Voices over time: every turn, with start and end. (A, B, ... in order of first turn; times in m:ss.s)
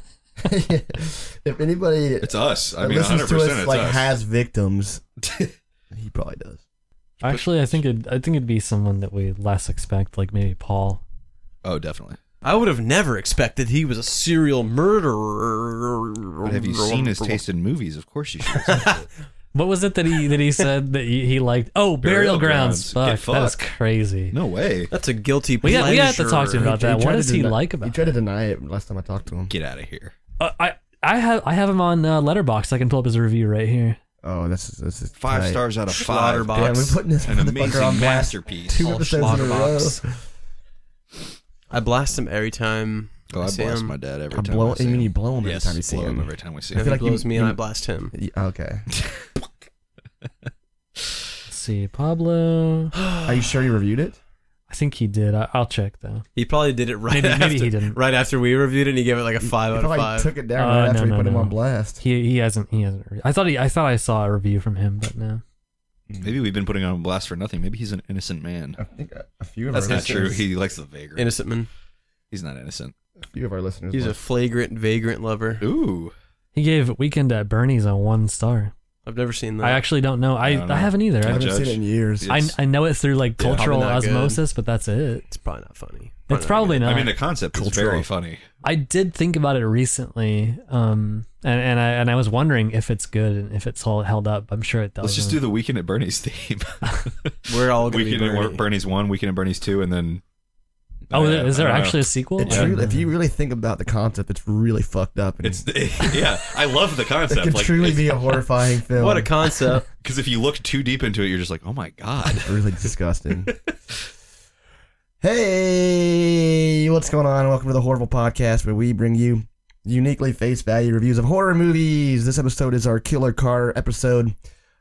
0:00.4-0:05.0 A
0:02.2-0:04.1 B
0:05.3-0:05.5 B
0:05.9-0:06.6 A
0:07.2-0:07.8 B
0:07.2-0:11.0 C
0:11.6-0:12.2 B
0:12.4-0:17.4 D
0:16.4-0:19.1 B
0:18.6-0:19.0 D
0:19.5-0:24.4 C
0:22.0-0:23.6 B
0:24.3-0:24.9 B
0:24.9-0:26.7 D
0:25.6-0:28.0 C
0:26.6-0:29.5 A
0:29.5-0:30.1 B
0:30.4-0:34.0 C
0:34.2-0:35.6 A
0:35.2-0:39.8 B
0:36.0-0:37.0 D
0:36.5-0:40.0 A
0:38.8-0:40.0 D
0:41.7-0:44.0 D
0:43.3-0:46.9 B
0:44.3-0:47.6 A
0:46.7-0:48.1 D
0:48.1-0:48.8 A
0:51.5-0:52.9 C
0:53.2-0:54.2 A
0:54.7-0:56.2 C
0:56.4-1:00.3 D
0:57.1-0:58.0 C
0:59.7-1:02.0 A
1:00.6-1:05.4 C
1:06.2-1:08.8 B
1:08.8-1:10.4 A
1:09.7-1:11.3 B
1:09.9-1:10.2 D
1:11.2-1:11.7 D
1:12.3-1:12.9 B
1:13.3-1:14.2 A
1:13.9-1:15.6 D
1:15.6-1:16.1 B
1:16.6-1:18.7 C
1:19.1-1:19.8 D
1:19.6-1:21.5 C
1:20.4-1:22.5 B
1:21.2-1:22.3 A
1:22.3-1:25.3 C
1:23.4-1:23.7 B
1:23.6-1:24.4 D
1:25.3-1:26.9 D
1:26.3-1:27.1 C
1:26.8-1:28.4 B
1:27.5-1:28.1 A
1:28.6-1:35.4 C
1:35.0-1:40.2 B
1:37.5-1:38.6 D
1:41.1-1:42.8 B
1:41.1-1:43.1 C
1:42.4-1:46.5 A
1:45.4-1:48.2 B
1:47.3-1:49.7 A
1:49.0-1:49.8 D
1:50.0-1:52.6 B
1:52.4-1:53.5 A
1:55.2-2:04.4 A